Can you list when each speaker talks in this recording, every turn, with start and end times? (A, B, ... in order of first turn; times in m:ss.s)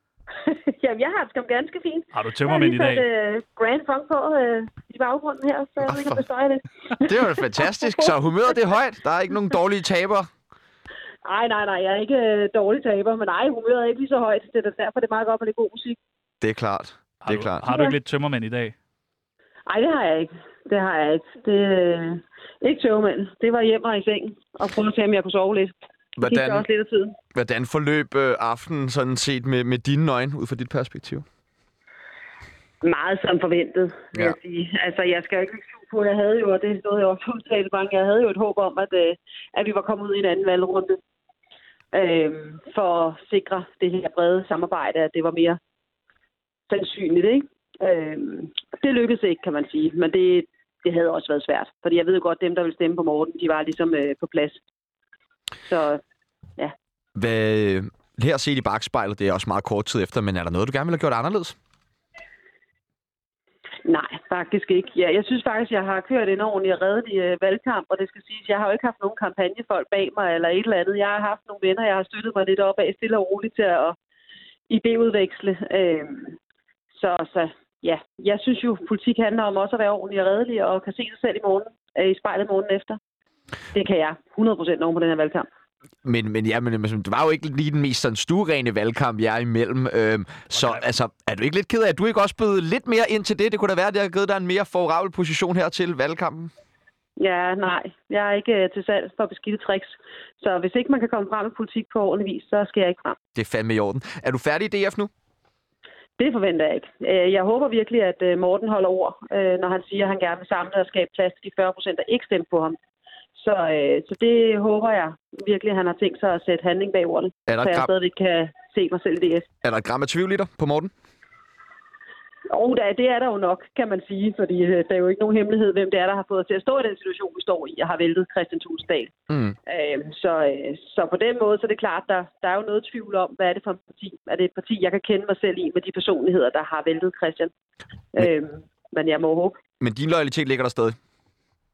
0:00.4-0:08.1 A
0:02.1-0:03.0 B
0:07.0-0:10.3 C
0:11.2-0:16.0 A
0:16.4-0:17.7 C
0:17.2-0:18.8 B
0:17.7-0:18.0 A
0:19.7-0:27.2 A
0:26.2-0:26.6 C
0:27.3-0:31.2 C
0:32.8-0:41.0 A
0:41.9-0:45.6 A
0:46.7-0:54.6 A
0:55.6-0:56.0 A
0:57.2-1:01.6 C
1:03.8-1:14.0 A
1:14.7-1:16.4 A
1:16.9-1:23.0 A
1:23.7-1:25.4 A
1:26.0-1:36.5 C
1:30.5-1:30.9 B
1:37.2-1:43.2 A
1:43.3-1:45.1 C
1:46.2-1:52.7 A
1:53.3-1:59.4 A
1:57.5-1:57.9 C
1:59.6-2:00.9 C
2:02.5-2:09.1 A
2:09.3-2:09.6 C
2:09.7-2:17.5 A
2:18.1-2:19.6 A
2:19.8-2:21.0 C